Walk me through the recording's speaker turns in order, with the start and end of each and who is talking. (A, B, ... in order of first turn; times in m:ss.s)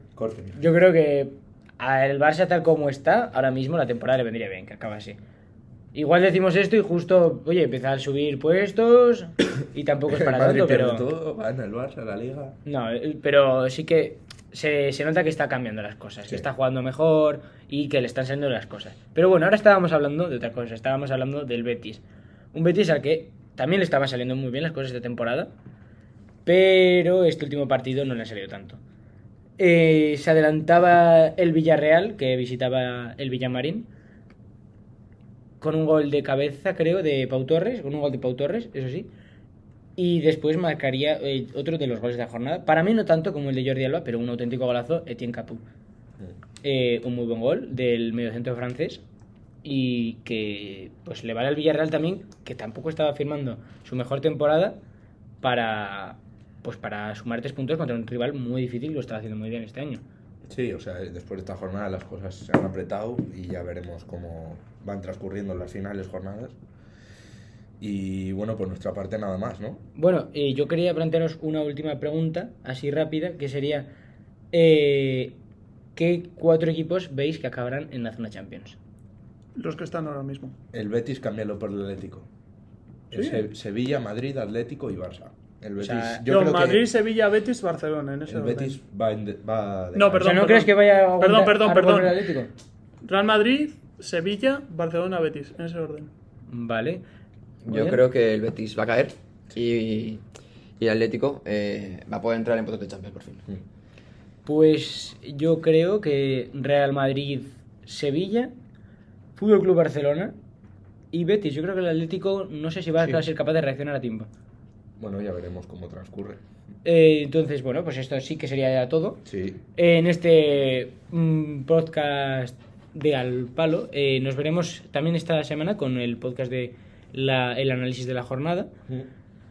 0:00.1-0:00.6 A
0:00.6-0:05.2 B
0:05.9-0:11.1 B
0:10.1-0:12.6 A
0:12.6-0:22.0 B
0:22.5-0:25.5 B
0:26.4-0:28.8 B
0:29.6-0:33.9 B
0:35.6-0:39.1 B
0:40.0-0:45.6 B
0:46.6-0:49.0 B
0:49.6-0:54.8 B
0:55.4-1:00.0 B
1:00.4-1:06.6 A
1:07.8-1:09.8 A
1:10.0-1:13.9 B
1:14.5-1:15.3 B
1:15.9-1:18.8 B
1:19.6-1:20.5 C
1:20.7-1:22.3 A
1:23.1-1:26.9 A
1:23.1-1:23.4 C
1:25.8-1:26.2 B
1:26.3-1:28.8 C
1:28.3-1:30.4 A
1:29.9-1:32.2 C
1:30.2-1:32.5 B
1:33.0-1:36.1 C
1:36.5-1:37.0 B
1:37.6-1:40.2 D
1:37.7-1:38.0 B
1:40.8-1:43.4 D
1:44.4-1:48.5 B
1:49.4-1:50.3 B
1:51.1-1:54.3 B
1:53.0-1:53.2 A
1:55.0-1:56.4 A
1:56.8-1:59.2 B
1:59.2-1:59.6 A
1:59.8-2:08.7 B